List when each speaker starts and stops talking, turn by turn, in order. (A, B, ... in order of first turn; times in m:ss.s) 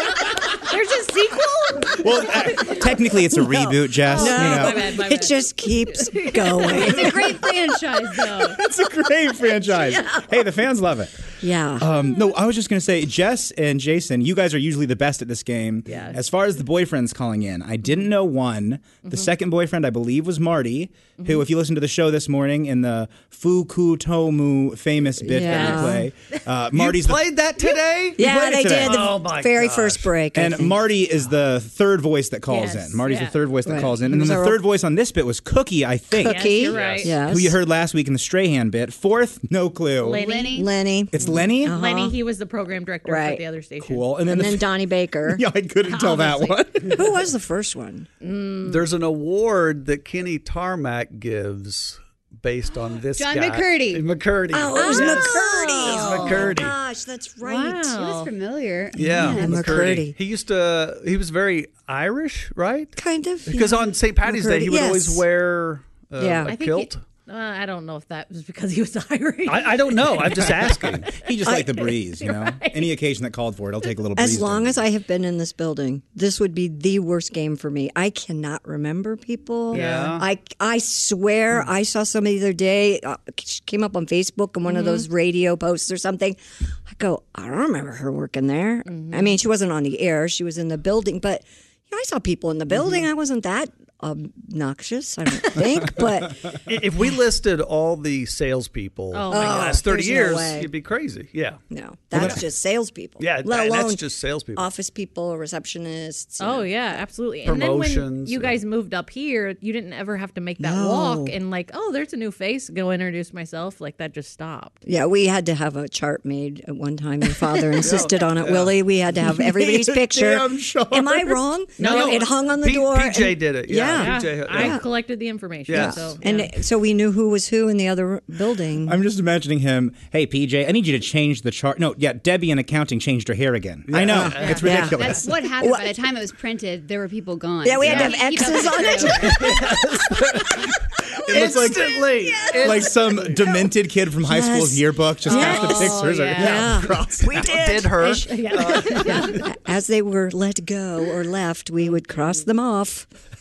0:00.7-0:02.1 A
0:01.9-0:04.8 B
0:04.0-0:07.1 A
0:04.1-0:07.4 C
0:06.7-0:08.5 D
0:07.9-0:08.5 A
0:08.3-0:11.1 B
0:09.7-0:10.2 C
0:11.4-0:11.9 C
0:11.8-0:27.3 B
0:15.8-0:16.2 A
0:21.2-0:21.5 A
0:25.2-0:26.1 C
0:25.4-0:26.0 A
0:26.7-0:30.2 E
0:28.2-0:30.8 C
0:28.2-0:29.2 B
0:30.3-0:40.2 B
0:32.5-0:33.4 A
0:33.6-0:34.6 C
0:36.2-0:37.6 C
0:36.2-0:37.2 A
0:36.7-0:37.1 E
0:40.0-0:44.1 A
0:40.1-0:40.7 D
0:40.5-0:42.2 C
0:41.1-0:41.8 B
0:43.0-0:43.4 C
0:43.8-0:46.9 B
0:44.3-0:45.4 C
0:45.8-0:46.6 A
0:46.8-0:48.1 C
0:48.2-0:48.8 A
0:48.6-0:56.8 E
0:53.2-0:54.0 D
0:54.5-0:58.0 C
0:54.8-0:56.5 A
0:57.4-0:58.3 A
0:57.9-0:59.9 D
0:58.9-1:02.9 E
0:59.0-1:00.2 C
1:03.0-1:05.2 C
1:03.4-1:07.0 E
1:06.2-1:06.5 C
1:06.4-1:10.9 A
1:09.4-1:11.0 E
1:10.9-1:14.9 B
1:11.4-1:11.7 C
1:12.2-1:12.9 A
1:14.1-1:36.5 C
1:19.7-1:20.2 E
1:19.7-1:20.1 A
1:24.7-1:25.0 A
1:28.9-1:29.4 A
1:36.6-1:41.6 E
1:39.1-1:39.8 A
1:39.3-1:40.7 C
1:41.7-1:46.7 C
1:42.1-1:42.4 E
1:43.2-1:44.7 E
1:46.4-1:54.8 A
1:47.4-1:48.6 E
1:50.6-1:51.4 C
1:54.8-2:04.8 C
1:57.8-1:58.7 E
1:59.2-2:01.4 B
2:01.8-2:04.8 E
2:01.8-2:02.3 A
2:04.0-2:06.5 A
2:05.7-2:06.2 E
2:05.7-2:09.0 C
2:08.8-2:15.4 B
2:13.9-2:15.0 E
2:14.1-2:16.0 C
2:14.9-2:19.4 D
2:17.6-2:19.8 C
2:17.8-2:18.2 E
2:19.0-2:20.5 E
2:21.2-2:27.2 B
2:21.3-2:23.5 E
2:21.6-2:22.9 C
2:24.2-2:33.1 C
2:25.3-2:26.7 A
2:27.2-2:29.4 E
2:28.1-2:29.4 A